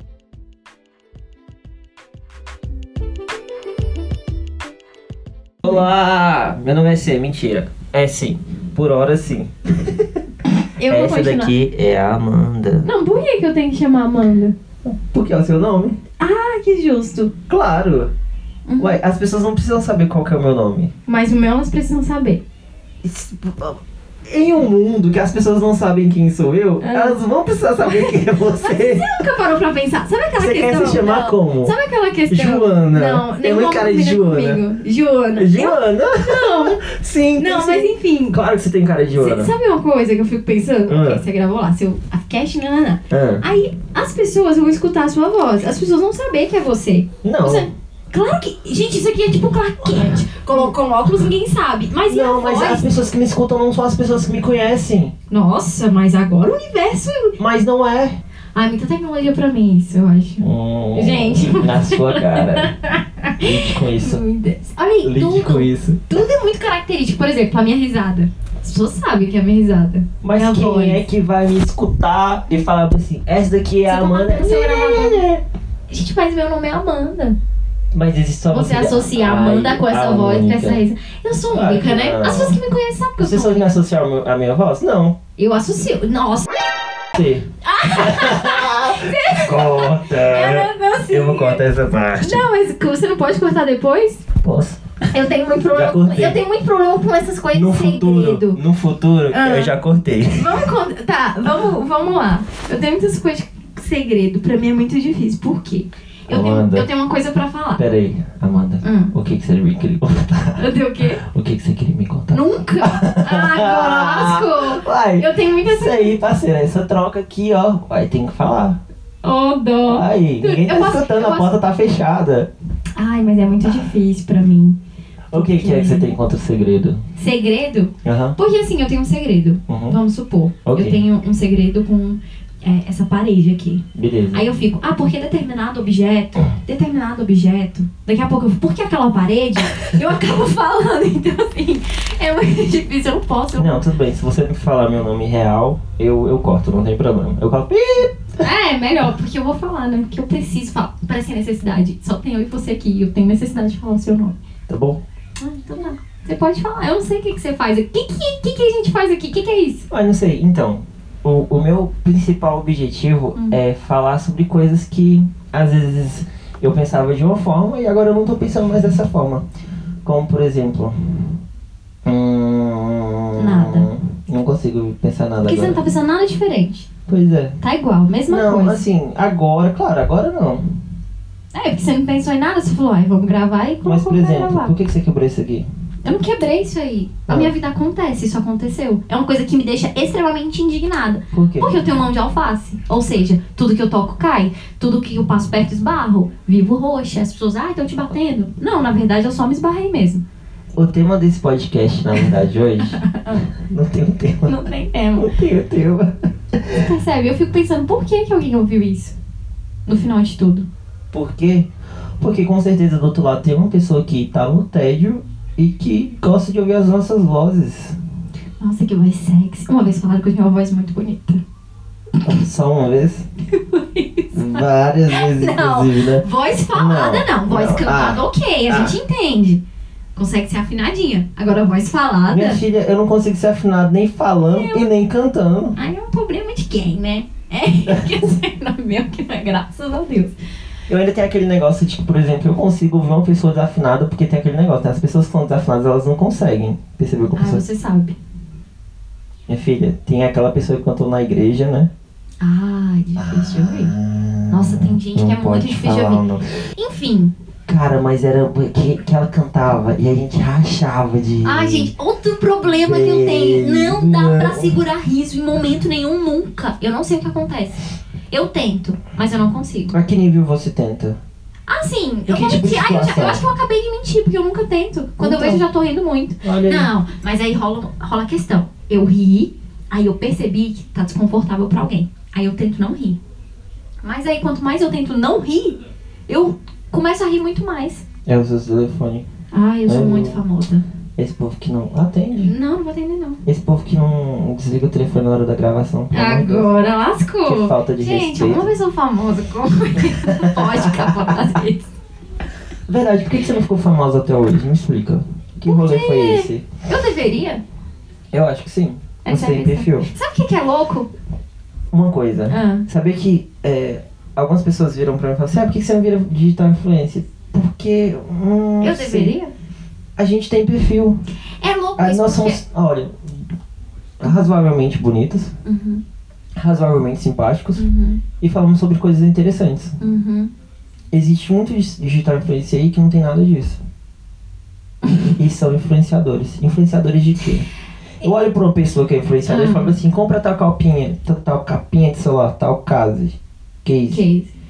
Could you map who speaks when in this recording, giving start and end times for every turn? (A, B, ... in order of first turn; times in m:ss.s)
0:05.6-0:10.1 A
0:10.8-0:11.5 B
0:10.9-0:12.9 A
0:12.8-0:14.6 B
0:14.8-0:16.0 A
0:16.2-0:17.3 B
0:17.5-0:18.1 A
0:18.7-0:19.0 B
0:18.8-0:20.9 A
0:21.1-0:22.4 B
0:23.0-0:29.1 A
0:26.8-0:27.2 B
0:27.8-0:36.8 B
0:30.4-0:31.8 A
0:32.3-0:34.6 A
0:35.4-0:39.5 A
0:37.4-0:38.4 B
0:39.2-0:52.9 B
0:40.9-0:41.2 A
0:43.1-0:43.4 A
0:47.2-0:47.7 A
0:49.8-0:50.7 A
0:52.1-0:55.1 A
0:55.3-0:57.4 B
0:57.4-0:58.2 A
0:58.6-1:11.0 B
1:00.4-1:02.7 A
1:03.4-1:04.2 A
1:05.0-1:06.1 A
1:10.2-1:15.4 A
1:13.9-1:15.2 B
1:15.9-1:17.4 B
1:17.9-1:20.8 A
1:18.5-1:23.7 B
1:21.5-1:22.6 A
1:23.2-1:25.2 A
1:25.4-1:26.5 B
1:27.1-1:32.5 A
1:27.6-1:31.6 B
1:32.2-1:34.2 B
1:34.4-1:34.8 A
1:35.1-1:38.6 B
1:35.7-1:36.4 A
1:37.5-1:40.7 A
1:39.3-1:39.7 B
1:40.4-1:47.8 B
1:46.3-1:46.9 A
1:47.8-1:58.8 A
1:48.8-1:49.1 B
1:50.6-1:51.2 B
1:52.3-1:56.2 B
1:59.2-2:01.5 B
1:59.8-2:02.5 A
2:03.0-2:04.8 B
2:05.3-2:07.0 A
2:05.3-2:06.1 B
2:07.2-2:23.8 B
2:08.0-2:08.4 A
2:09.7-2:10.0 A
2:10.6-2:11.0 A
2:13.9-2:14.4 A
2:23.6-2:28.4 A
2:28.4-2:34.4 B
2:34.7-2:35.0 A
2:35.4-2:39.9 B
2:39.9-2:49.4 A
2:50.0-2:51.4 A
2:52.0-2:55.8 A
2:53.4-2:53.9 B
2:55.4-2:56.9 B
2:57.1-2:57.6 A
2:57.6-2:58.8 B
2:58.3-3:00.8 A
3:01.5-3:04.7 B
3:03.8-3:05.7 A
3:06.0-3:20.2 B
3:07.3-3:07.5 A
3:11.3-3:11.8 A
3:20.7-3:23.0 A
3:23.0-3:23.4 B
3:23.5-3:24.6 A
3:24.4-3:25.3 B
3:25.2-3:26.9 A
3:26.8-3:29.2 B
3:29.9-3:30.7 B
3:31.1-3:38.0 A
3:38.6-3:41.4 B
3:42.2-3:43.3 A
3:43.5-3:49.6 B
3:44.3-3:49.0 A
3:50.2-3:52.6 B
3:52.3-3:55.8 A
3:54.4-3:54.9 B
3:55.8-4:00.3 B
3:57.9-3:58.2 A
4:00.9-4:07.6 A
4:07.4-4:08.2 B
4:09.5-4:11.9 A
4:12.4-4:13.9 B
4:13.2-4:16.6 A
4:14.5-4:16.2 B
4:16.8-4:17.3 B
4:17.7-4:21.9 A
4:21.4-4:30.0 B
4:22.7-4:24.8 A
4:29.9-4:31.2 A
4:31.7-4:43.2 B
4:32.3-4:33.5 A
4:35.2-4:35.6 A
4:36.4-4:36.9 A
4:44.0-4:48.0 B
4:48.3-4:49.3 A
4:49.5-4:50.8 B
4:49.9-4:50.4 A
4:51.2-4:52.5 A
4:52.4-4:53.4 B
4:53.4-4:56.7 A
4:56.1-5:01.9 B
4:57.4-4:58.7 A
5:00.2-5:01.4 A
5:02.9-5:06.6 A
5:05.7-5:07.6 B
5:08.3-5:10.1 A
5:09.2-5:11.1 B
5:11.9-5:19.4 A
5:12.5-5:12.9 B
5:18.8-5:19.5 B
5:20.2-5:21.2 A
5:21.6-5:22.6 B
5:22.0-5:23.5 A
5:24.2-5:25.6 A
5:25.6-5:26.0 B
5:26.6-5:27.9 A
5:27.8-5:28.2 B
5:28.4-5:30.0 A
5:30.0-5:30.5 B
5:31.1-5:33.8 A
5:35.0-5:35.3 B
5:35.4-5:37.7 A
5:38.2-5:44.2 A
5:39.5-5:40.0 B
5:44.1-5:44.5 B